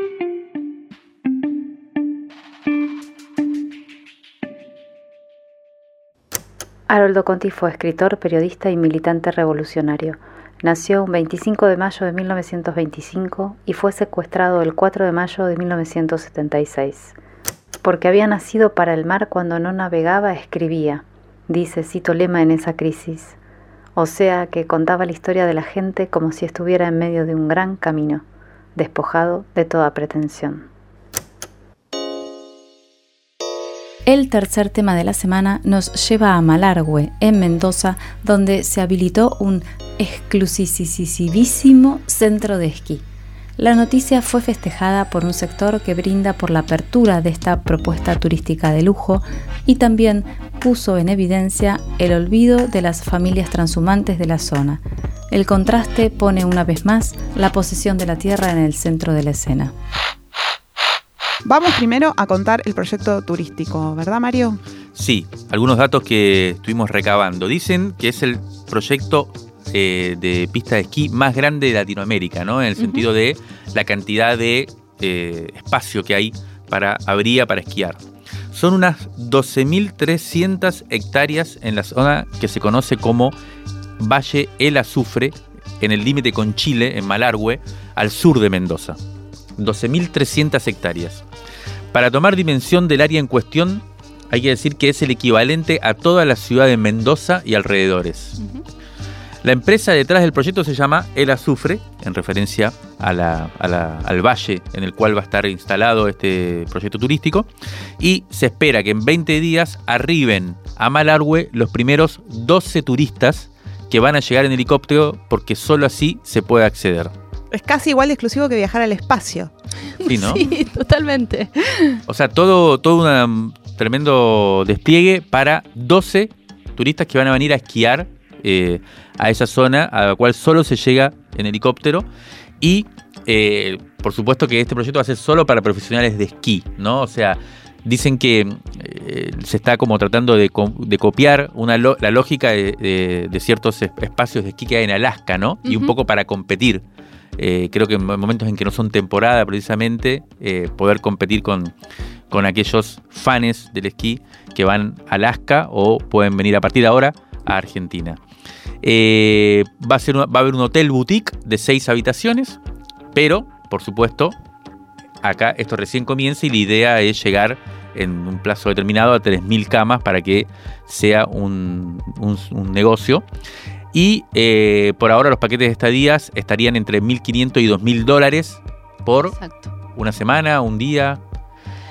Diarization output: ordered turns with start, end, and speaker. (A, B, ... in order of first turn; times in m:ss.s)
0:06.9-0:17.1 A
0:17.8-0:23.4 A
0:24.0-0:28.2 A
0:28.8-0:30.7 A
0:34.0-0:43.0 A
0:43.6-0:59.7 A
1:01.4-1:04.6 B
1:05.0-1:18.0 C
1:12.8-1:13.0 D
1:18.5-1:23.3 C
1:24.0-1:29.0 C
1:29.6-1:31.2 C
1:31.9-1:38.4 C
1:39.4-1:47.5 C
1:48.0-1:57.1 C
1:57.5-1:59.5 B
2:00.0-2:02.0 D
2:00.0-2:00.5 C
2:02.1-2:12.0 C
2:12.6-2:26.8 C
2:25.6-2:25.9 D
2:27.4-2:31.7 C
2:32.3-2:38.2 C
2:38.8-2:42.6 C
2:43.1-2:44.3 C
2:45.2-2:53.2 C
2:53.9-2:59.3 C
2:59.2-2:59.7 D
2:59.9-3:01.2 C